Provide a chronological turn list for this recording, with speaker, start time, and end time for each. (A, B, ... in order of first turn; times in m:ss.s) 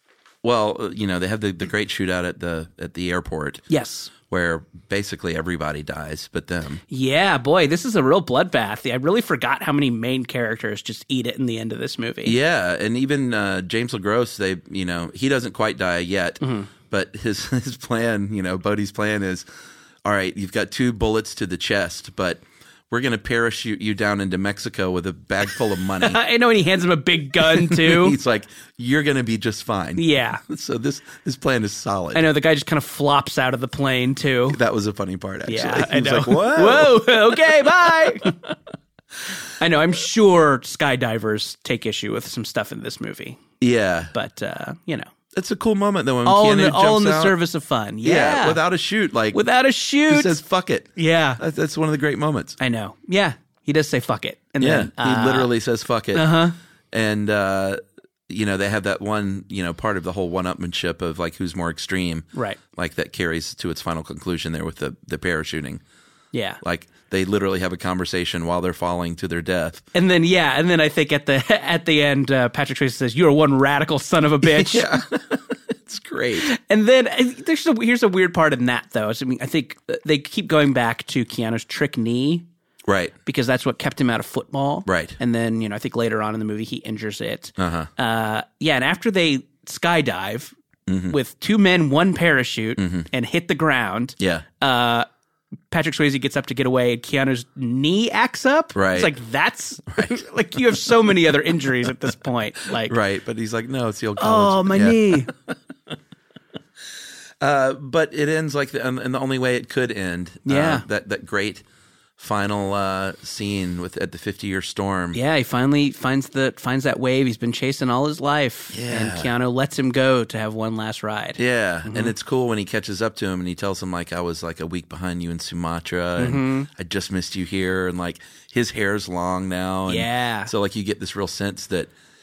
0:00.4-0:03.6 A
0:03.7-0:04.1 B
0:04.3-0:06.8 A
0:06.9-0:12.4 B
0:12.2-0:19.4 A
0:16.4-0:16.7 B
0:20.0-0:26.2 A
0:26.0-0:28.2 B
0:27.4-0:32.2 A
0:30.0-0:30.4 B
0:32.1-0:34.6 B
0:34.5-0:37.1 A
0:35.5-0:38.4 B
0:39.6-0:43.4 B
0:43.6-0:44.1 A
0:44.1-0:45.1 B
0:45.3-0:47.4 A
0:46.2-0:48.6 B
0:48.0-0:49.4 A
0:49.3-0:50.4 B
0:50.1-0:52.6 A
0:51.0-0:51.4 B
0:52.6-0:55.5 B
0:54.6-0:56.4 A
0:56.1-0:56.5 B
0:56.9-1:05.8 A
1:06.3-1:06.6 B
1:06.6-1:09.8 A
1:09.9-1:15.0 B
1:14.4-1:16.5 A
1:16.4-1:22.4 B
1:22.9-1:23.1 A
1:23.2-1:30.5 B
1:24.8-1:25.2 A
1:27.6-1:27.9 A
1:30.9-1:31.2 A
1:31.1-1:35.1 B
1:32.8-1:33.1 A
1:34.2-1:34.4 A
1:35.7-1:42.9 B
1:38.7-1:39.1 A
1:39.9-1:40.2 A
1:42.9-1:45.3 A
1:44.2-1:45.3 B
1:47.4-1:51.6 A
1:50.4-1:50.8 B
1:52.2-1:55.2 A
1:55.1-2:02.1 B
1:58.7-1:59.3 A
2:01.4-2:11.9 A
2:06.2-2:06.7 B
2:09.9-2:10.5 B